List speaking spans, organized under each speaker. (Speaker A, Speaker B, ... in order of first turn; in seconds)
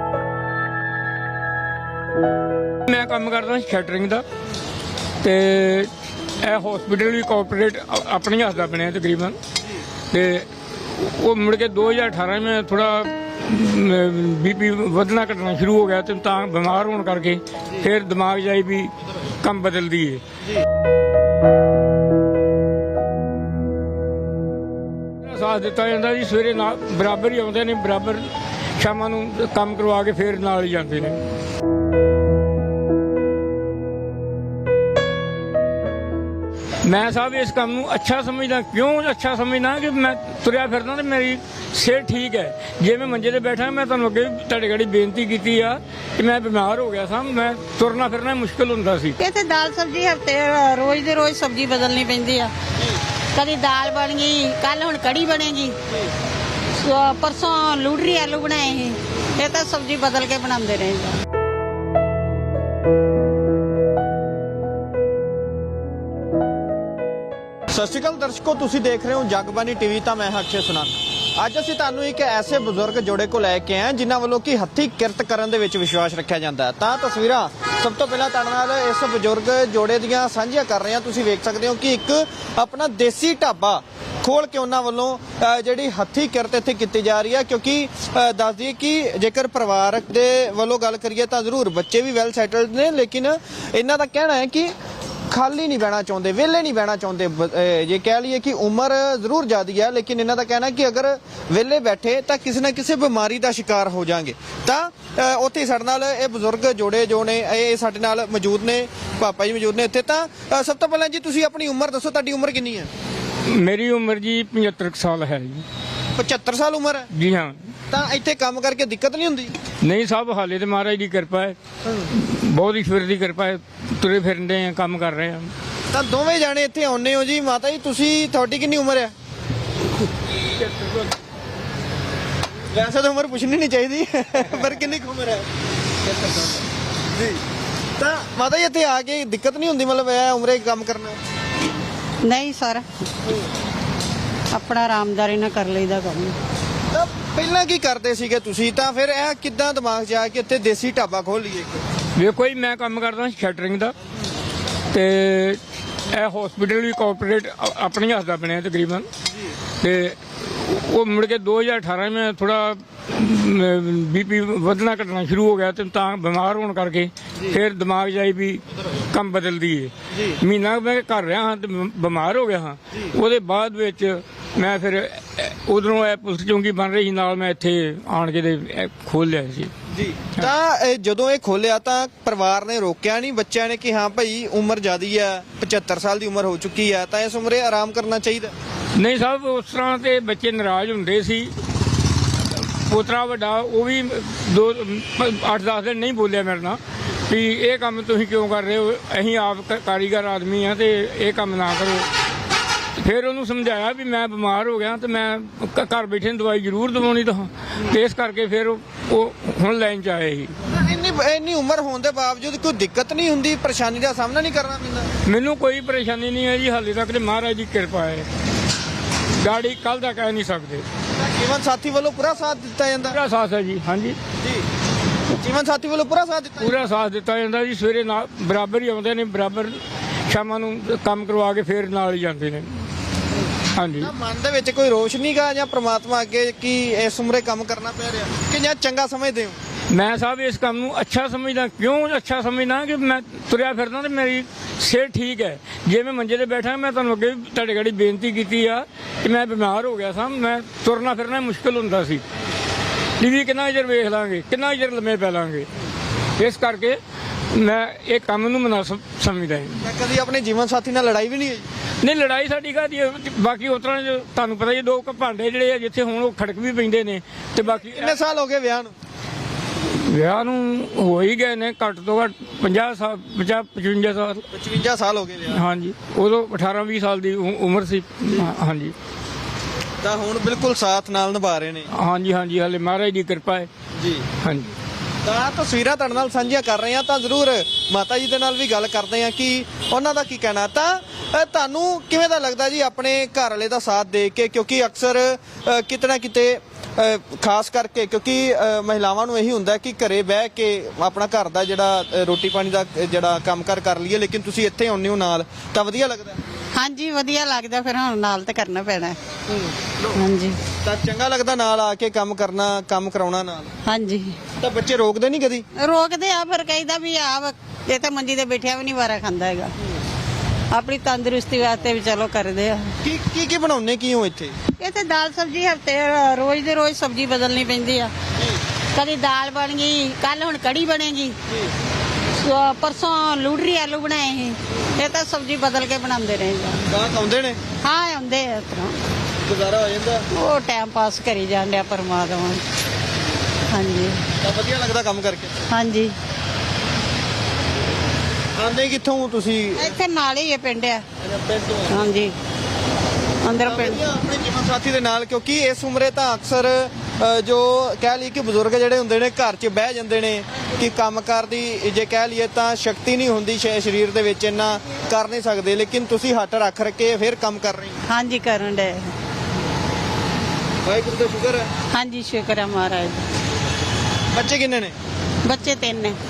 Speaker A: 2.9-4.2, 5.2-9.4, 10.1-20.2, 25.2-31.2, 36.8-49.2, 113.4-115.6, 117.1-117.6, 119.8-125.5, 152.2-153.9, 154.9-159.1, 159.8-179.7, 188.9-191.5, 192.5-202.1, 202.9-210.5, 215.2-218.3, 219.3-220.8, 223.1-224.2, 226.6-232.8, 233.7-234.1, 239.9-252.2, 253.2-255.7, 256.4-259.8, 262.0-268.2, 269.8-274.5, 275.5-278.9, 281.9-283.7, 284.4-284.7
Speaker B: 49.2-52.5, 53.3-55.8, 56.7-61.2, 142.2-142.8, 144.5-146.3, 306.7-309.2, 310.1-310.6, 313.9-314.4, 315.8-319.7, 320.7-322.9, 324.8-328.1, 328.9-331.4, 332.3-336.8, 337.8-339.0, 340.3-342.6, 343.7-344.2, 345.7-346.1, 349.8-351.0, 351.9-352.3, 353.4-354.0, 368.1-369.1, 371.9-373.3, 375.4-376.2
Speaker C: 67.7-94.7, 95.3-112.9, 116.2-117.1, 117.9-119.5, 125.9-129.1, 132.7-135.5, 136.1-136.5, 137.1-137.4, 138.0-141.2, 146.9-151.8, 170.1-170.4, 179.9-188.5, 210.7-215.1, 221.2-223.2, 224.4-224.7, 225.3-226.8, 234.0-239.6, 259.8-261.7, 267.6-268.9, 274.5-275.6, 280.0-281.9, 284.0-284.3, 285.2-306.4, 310.8-313.7, 314.6-315.6, 323.0-324.6, 336.9-337.6, 339.4-340.3, 344.4-345.6, 348.6-349.9, 351.3-351.9, 353.6-368.0, 370.8-371.7, 374.3-374.9